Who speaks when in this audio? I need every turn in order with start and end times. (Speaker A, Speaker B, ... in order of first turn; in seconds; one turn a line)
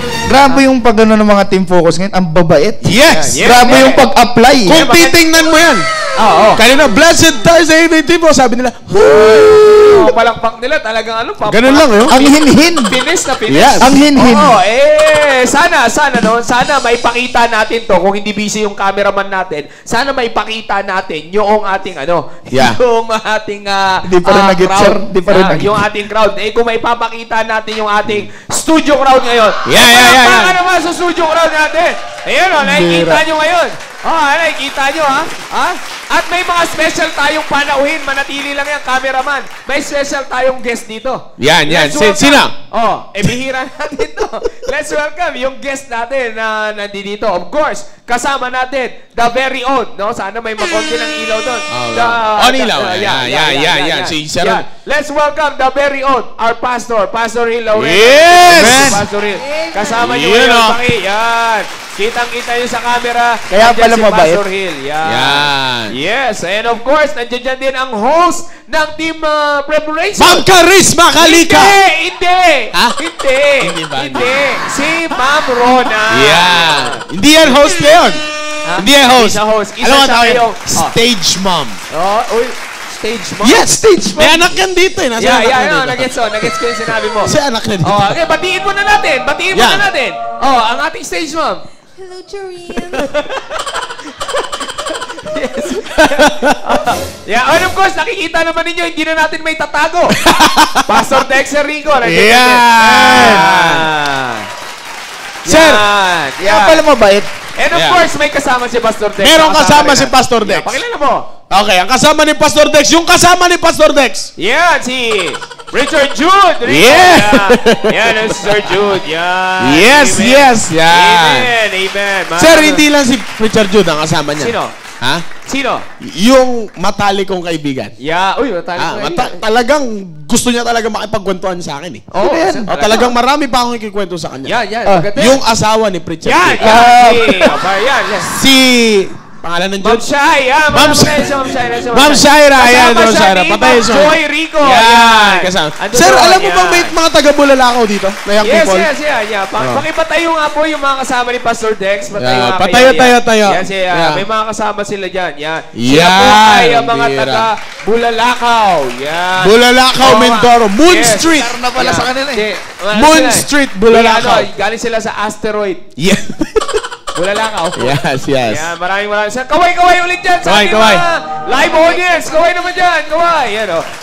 Speaker A: 0.3-4.8
Speaker B: 2.8-3.4
Speaker C: 3.1-4.1
Speaker B: 4.7-5.9
Speaker C: 4.7-5.2
Speaker C: 6.2-6.6
Speaker B: 6.5-10.1
Speaker C: 9.1-12.3
Speaker B: 11.4-12.2
Speaker A: 12.1-12.9
Speaker C: 12.9-70.5
Speaker B: 13.5-14.0
Speaker A: 13.8-14.6
Speaker B: 22.5-22.8
Speaker A: 24.1-25.8
Speaker B: 29.6-30.6
Speaker B: 32.6-33.2
Speaker B: 41.4-42.5
Speaker B: 51.7-54.6
Speaker B: 57.7-59.0
Speaker A: 58.5-59.0
Speaker D: 59.4-60.0
Speaker B: 60.0-60.8
Speaker A: 63.5-64.4
Speaker B: 65.0-65.9
Speaker B: 70.2-71.8
Speaker C: 71.2-77.0
Speaker B: 73.6-74.5
Speaker B: 76.1-78.2
Speaker C: 78.7-80.9
Speaker B: 78.8-81.8
Speaker C: 81.9-84.5
Speaker B: 83.4-86.5
Speaker C: 85.2-91.6
Speaker B: 87.2-88.2
Speaker B: 89.5-89.9
Speaker D: 92.0-93.1
Speaker C: 92.9-93.6
Speaker C: 95.1-100.2
Speaker B: 96.0-96.6
Speaker B: 100.2-101.2
Speaker C: 100.8-104.5
Speaker B: 102.0-103.9
Speaker C: 105.4-106.8
Speaker B: 105.5-105.8
Speaker A: 106.4-107.3
Speaker C: 107.5-111.3
Speaker B: 107.7-108.0
Speaker B: 109.2-110.8
Speaker B: 111.5-114.3
Speaker C: 114.4-122.8
Speaker B: 116.6-118.8
Speaker B: 119.6-121.5
Speaker B: 122.3-125.2
Speaker C: 124.4-124.7
Speaker C: 125.4-125.8
Speaker B: 126.0-127.9
Speaker C: 128.0-129.4
Speaker B: 128.8-134.6
Speaker C: 132.1-133.1
Speaker C: 134.4-135.4
Speaker B: 135.1-136.9
Speaker C: 136.2-138.3
Speaker A: 136.6-137.5
Speaker B: 138.2-140.1
Speaker C: 139.8-146.9
Speaker B: 140.7-148.9
Speaker C: 148.4-165.8
Speaker B: 149.6-149.8
Speaker B: 152.2-154.2
Speaker B: 155.7-157.5
Speaker B: 159.4-161.6
Speaker A: 161.3-162.4
Speaker B: 162.9-164.5
Speaker B: 166.0-166.8
Speaker C: 167.1-167.9
Speaker B: 167.8-168.7
Speaker C: 168.4-173.8
Speaker B: 170.4-171.0
Speaker D: 171.6-172.8